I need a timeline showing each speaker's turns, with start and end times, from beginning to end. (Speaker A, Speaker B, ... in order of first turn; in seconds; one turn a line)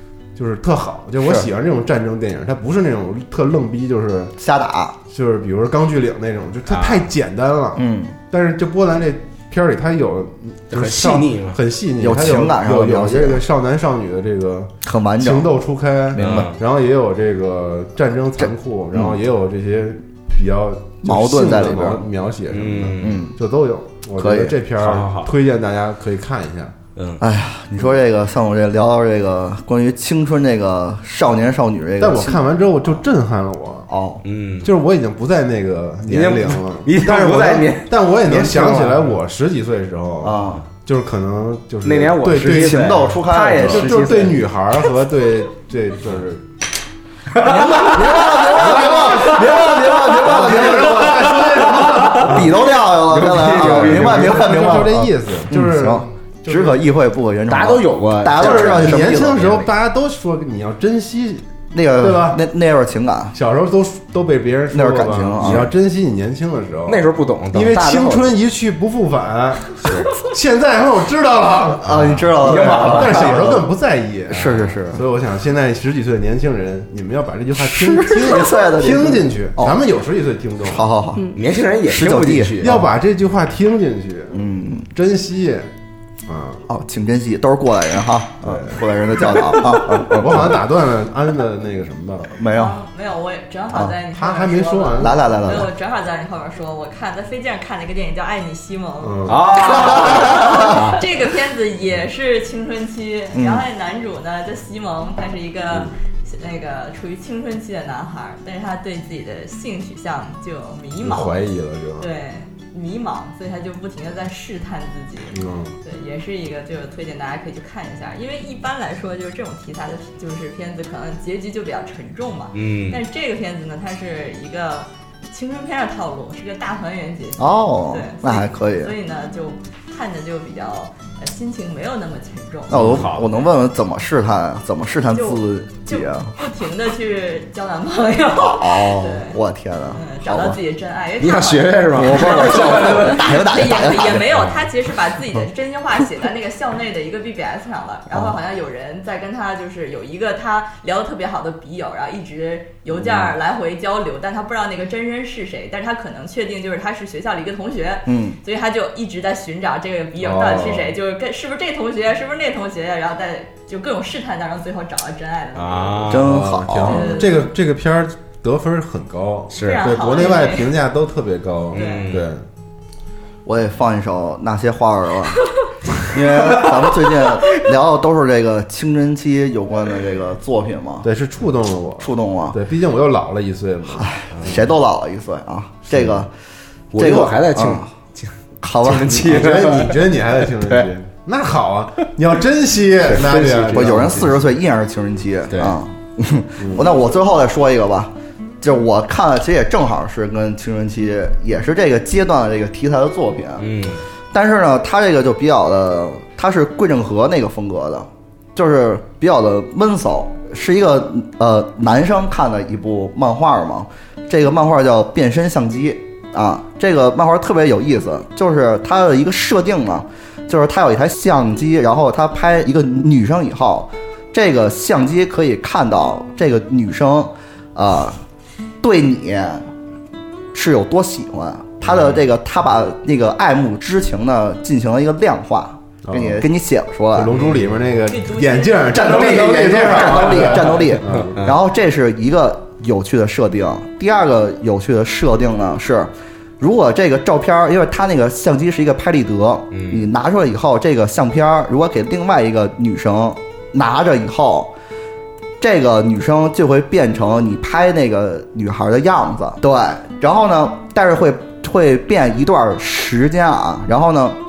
Speaker A: 0.3-4.3
Speaker B: 1.2-1.5
Speaker B: 4.4-5.0
Speaker A: 5.1-26.8
Speaker C: 6.7-7.0
Speaker B: 7.8-8.2
Speaker C: 10.7-11.6
Speaker B: 12.0-13.4
Speaker B: 14.8-15.5
Speaker B: 16.1-16.5
Speaker C: 16.1-16.6
Speaker B: 18.5-19.1
Speaker B: 21.0-22.0
Speaker C: 22.5-23.2
Speaker B: 23.0-23.3
Speaker B: 24.2-24.5
Speaker C: 24.8-25.3
Speaker C: 26.9-27.2
Speaker B: 27.2-32.4
Speaker A: 32.0-33.9
Speaker B: 33.9-34.2
Speaker C: 34.2-34.7
Speaker A: 34.6-46.5
Speaker C: 36.1-39.1
Speaker B: 40.2-40.6
Speaker C: 41.8-44.4
Speaker B: 42.4-44.0
Speaker C: 47.3-54.5
Speaker B: 47.4-51.4
Speaker A: 47.8-52.6
Speaker B: 52.0-59.6
Speaker A: 53.4-56.9
Speaker C: 57.5-59.6
Speaker A: 58.3-62.4
Speaker B: 61.7-63.3
Speaker A: 63.3-80.8
Speaker B: 64.7-65.7
Speaker C: 66.9-68.4
Speaker C: 69.8-70.1
Speaker B: 71.8-73.6
Speaker C: 71.9-73.4
Speaker C: 74.3-74.7
Speaker B: 74.3-75.0
Speaker B: 77.6-79.8
Speaker B: 80.6-81.3
Speaker C: 81.3-82.8
Speaker B: 81.8-82.8
Speaker A: 82.6-85.7
Speaker B: 84.3-84.9
Speaker A: 86.2-86.6
Speaker B: 86.7-90.6
Speaker A: 88.4-92.3
Speaker B: 92.3-92.8
Speaker D: 92.5-111.4
Speaker A: 94.1-95.7
Speaker B: 95.0-95.7
Speaker A: 99.0-99.7
Speaker C: 99.3-101.0
Speaker B: 99.9-100.7
Speaker B: 103.3-103.7
Speaker A: 105.7-106.0
Speaker A: 111.0-112.1
Speaker D: 112.0-133.5
Speaker A: 115.3-115.8
Speaker C: 122.5-123.0
Speaker B: 127.4-128.9
Speaker B: 132.7-136.3
Speaker C: 132.7-133.3
Speaker D: 135.1-139.4
Speaker B: 138.4-140.6
Speaker D: 139.9-167.5
Speaker C: 141.2-144.7
Speaker B: 141.9-144.2
Speaker B: 148.1-148.3
Speaker A: 152.9-153.3
Speaker B: 158.1-158.4
Speaker A: 160.2-160.9
Speaker C: 165.5-166.6
Speaker B: 166.1-167.0
Speaker A: 166.2-172.4
Speaker C: 169.5-170.5
Speaker D: 169.6-170.7
Speaker C: 171.7-172.3
Speaker D: 171.7-172.1
Speaker B: 173.4-175.4
Speaker B: 176.1-181.1
Speaker C: 176.3-177.3
Speaker A: 181.0-184.7
Speaker B: 182.0-182.6
Speaker B: 183.9-186.3
Speaker C: 184.3-184.6
Speaker A: 185.9-186.2
Speaker C: 186.9-190.9
Speaker B: 186.9-187.9
Speaker B: 188.6-189.2
Speaker A: 189.1-194.5
Speaker C: 193.1-194.4
Speaker B: 193.7-203.7
Speaker C: 195.5-195.8
Speaker A: 196.6-197.0
Speaker C: 203.6-204.0
Speaker B: 204.3-228.2
Speaker B: 228.8-229.7
Speaker B: 230.5-237.3
Speaker A: 236.0-236.5
Speaker A: 237.1-241.4
Speaker C: 237.3-237.7
Speaker D: 238.1-239.5
Speaker C: 238.9-241.6
Speaker B: 238.9-254.7
Speaker C: 249.7-250.1
Speaker B: 255.6-264.4